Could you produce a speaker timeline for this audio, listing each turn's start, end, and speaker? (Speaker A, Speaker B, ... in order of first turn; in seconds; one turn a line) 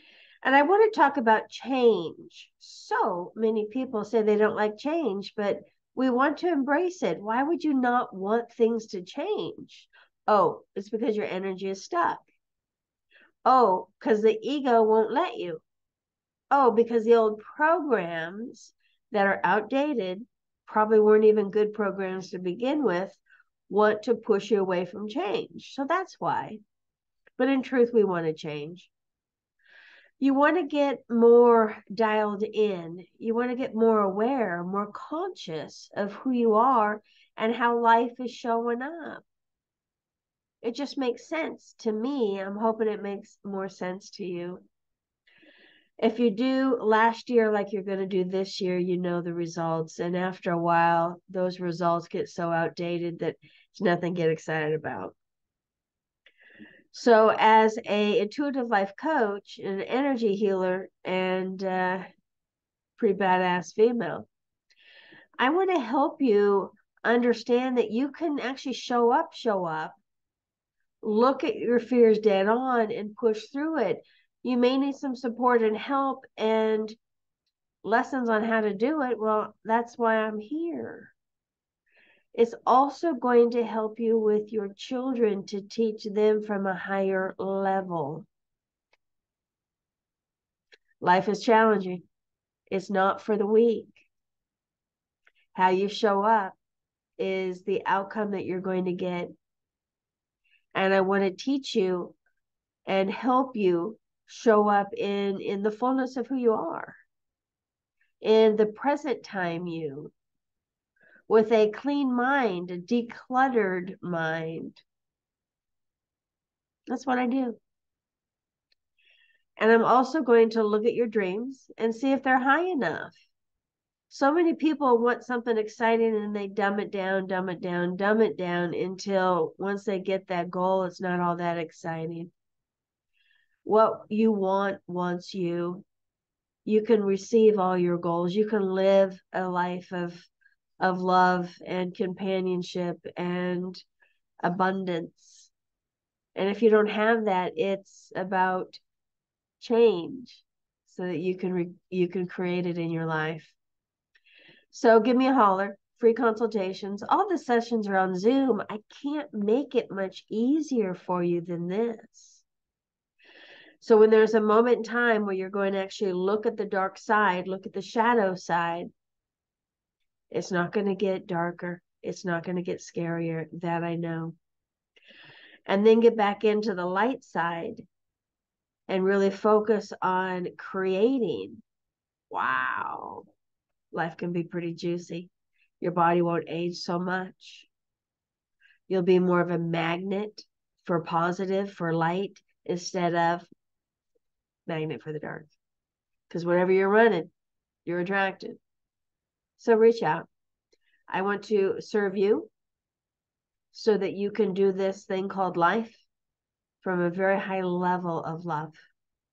Speaker A: 0.4-12.2
Speaker A: 13.5-15.6
Speaker A: 16.5-26.6
Speaker A: 27.4-28.9
Speaker A: 30.2-39.2
Speaker A: 40.6-44.6
Speaker A: 46.0-55.1
Speaker A: 56.9-62.1
Speaker A: 63.0-64.3
Speaker A: 65.4-70.0
Speaker A: 71.0-77.0
Speaker A: 77.8-81.1
Speaker A: 82.3-88.3
Speaker A: 91.0-92.1
Speaker A: 92.7-94.1
Speaker A: 95.5-96.6
Speaker A: 97.2-99.3
Speaker A: 100.7-102.2
Speaker A: 102.9-107.0
Speaker A: 108.2-110.1
Speaker A: 111.3-114.8
Speaker A: 116.9-117.6
Speaker A: 119.6-123.2
Speaker A: 124.1-132.3
Speaker A: 133.6-135.8
Speaker A: 136.7-143.8
Speaker A: 144.4-145.5
Speaker A: 146.3-148.8
Speaker A: 149.6-153.6
Speaker A: 154.7-162.4
Speaker A: 163.8-168.9
Speaker A: 170.3-174.4
Speaker A: 175.7-177.9
Speaker A: 178.9-181.6
Speaker A: 182.3-183.3
Speaker A: 183.9-187.7
Speaker A: 188.9-193.5
Speaker A: 194.7-195.5
Speaker A: 196.3-197.3
Speaker A: 197.9-198.6
Speaker A: 199.6-200.3
Speaker A: 201.1-202.5
Speaker A: 203.7-206.0
Speaker A: 206.8-208.8